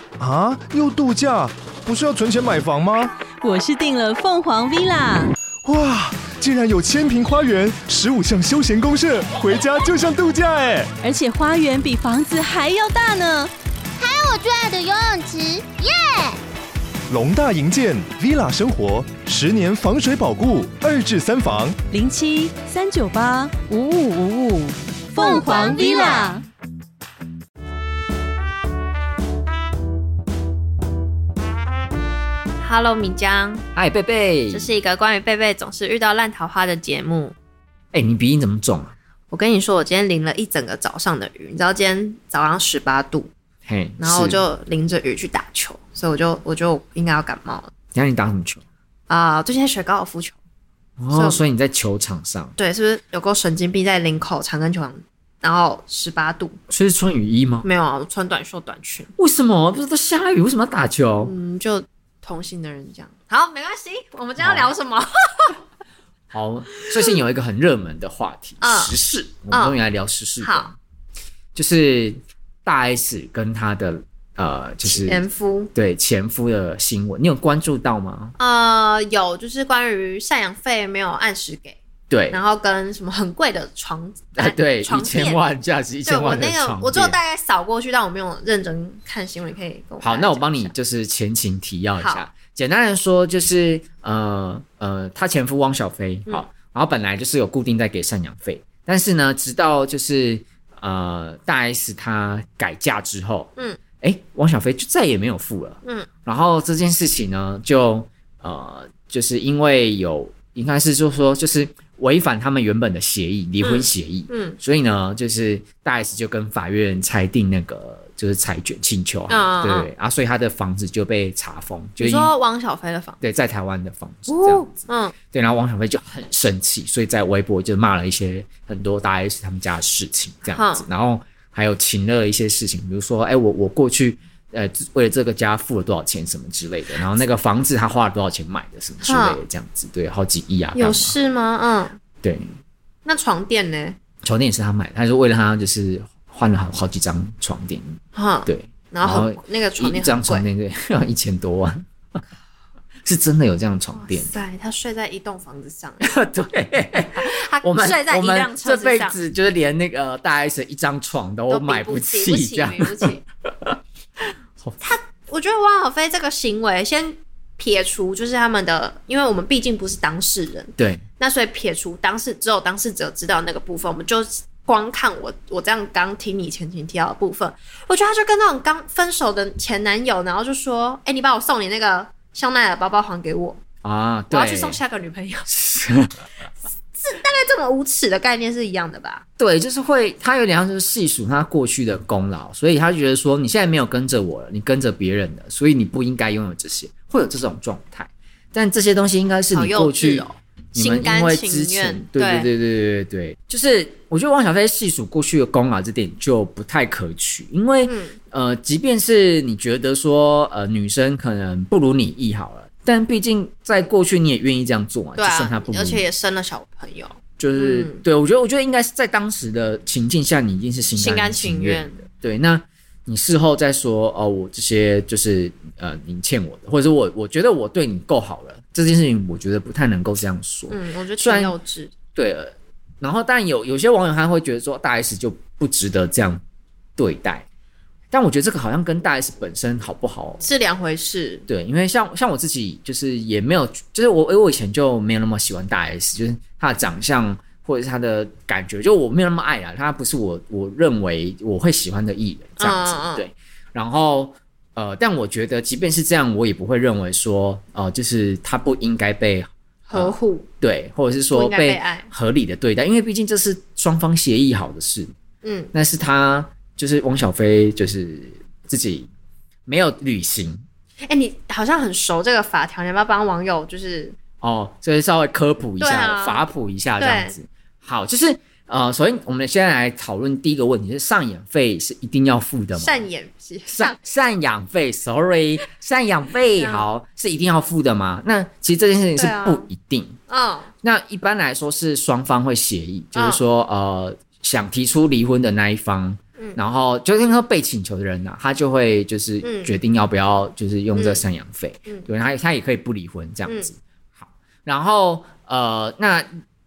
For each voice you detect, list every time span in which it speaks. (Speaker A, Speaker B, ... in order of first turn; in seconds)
Speaker A: 0.2-3.1, 5.6-10.9, 17.1-21.8
Speaker B: 3.4-5.3, 11.0-13.5, 21.9-26.4
Speaker C: 14.0-16.4, 25.2-26.4
Speaker D: 32.6-33.6, 34.5-37.4, 39.3-43.3, 44.0-47.7, 49.1-50.4, 51.1-51.4, 52.6-56.6, 57.6-59.1, 61.2-65.6, 68.6-69.0, 69.5-69.8, 70.4-70.7, 74.8-75.7, 78.4-81.8, 82.3-85.4, 86.1-90.7, 92.0-92.3, 113.6-114.6, 119.3-119.9, 122.0-123.2, 124.3-125.1, 130.5-130.8, 139.0-139.4, 140.7-142.0, 143.1-144.0, 148.2-150.5, 153.9-156.1, 157.1-159.2, 161.5-163.2, 164.8-183.6, 184.3-185.5, 186.9-189.2, 199.5-202.5, 207.8-208.2, 215.2-218.0, 220.9-222.0, 230.7-231.9, 240.4-241.5, 252.6-253.3, 259.9-260.5, 261.3-262.1, 265.4-265.7, 271.1-274.2, 275.8-276.5, 277.0-277.4, 282.7-284.0, 286.6-286.9, 289.2-289.7, 290.3-290.7, 293.1-293.4, 299.4-299.7, 301.0-301.2, 303.5-303.7
Speaker E: 33.7-34.7, 37.9-39.0, 43.7-44.4, 47.9-48.6, 51.0-52.5, 56.7-57.7, 59.2-61.4, 64.4-64.7, 66.3-70.8, 71.5-78.3, 82.1-82.4, 84.4-87.2, 90.0-122.3, 123.2-141.2, 142.2-142.6, 144.2-152.2, 153.1-154.3, 156.0-163.8, 170.8-171.0, 183.8-184.8, 185.5-186.3, 189.4-216.1, 217.4-231.6, 232.2-236.4, 237.0-237.4, 238.1-240.4, 241.5-265.1, 265.7-269.1, 269.7-270.6, 274.4-283.1, 283.7-290.2, 290.8-306.3